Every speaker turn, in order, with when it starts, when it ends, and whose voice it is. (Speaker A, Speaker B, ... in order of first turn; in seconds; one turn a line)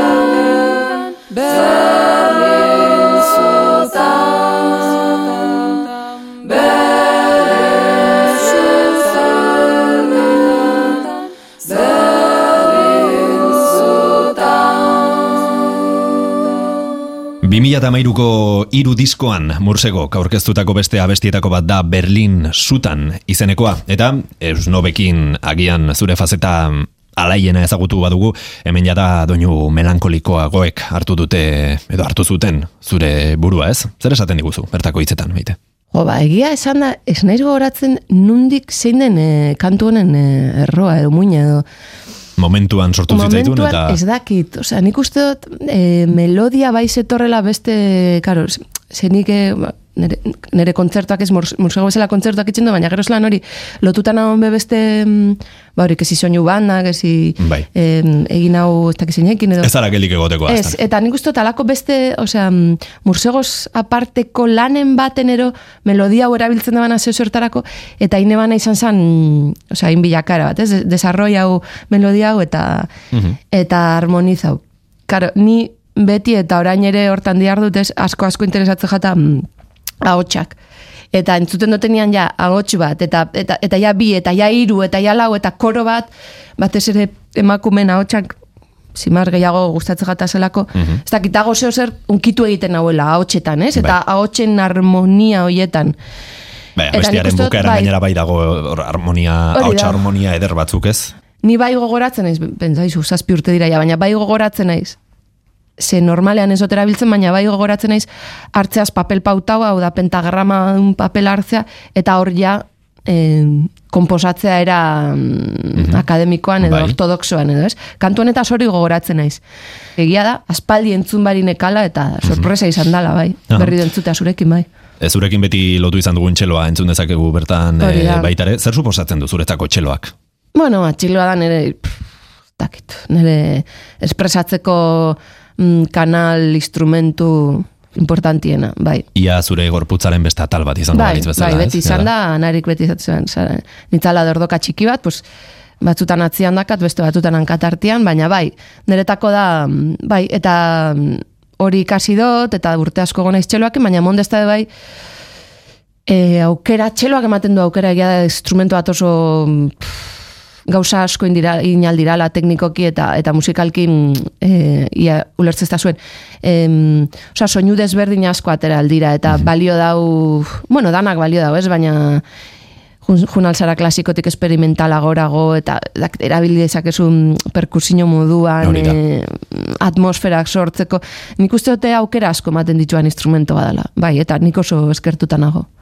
Speaker A: 17.4-35.6
Speaker B: 35.9-41.6
Speaker A: 42.4-44.0
Speaker B: 43.1-59.7
Speaker A: 57.4-57.7
Speaker A: 59.6-60.8
Speaker B: 60.5-72.9
Speaker B: 73.5-79.5
Speaker B: 80.0-80.6
Speaker B: 81.1-88.4
Speaker B: 88.9-96.0
Speaker A: 90.8-91.0
Speaker A: 96.8-101.1
Speaker B: 96.9-97.9
Speaker B: 99.5-100.0
Speaker B: 101.4-105.0
Speaker B: 105.8-119.4
Speaker A: 115.8-116.0
Speaker A: 116.6-117.0
Speaker B: 120.0-124.7
Speaker A: 125.0-130.1
Speaker B: 127.8-128.3
Speaker B: 130.6-132.0
Speaker B: 132.6-139.1
Speaker A: 139.2-142.1
Speaker B: 140.9-145.2
Speaker B: 145.8-154.7
Speaker B: 156.1-159.9
Speaker B: 160.7-172.2
Speaker B: 173.0-185.7
Speaker A: 178.6-179.0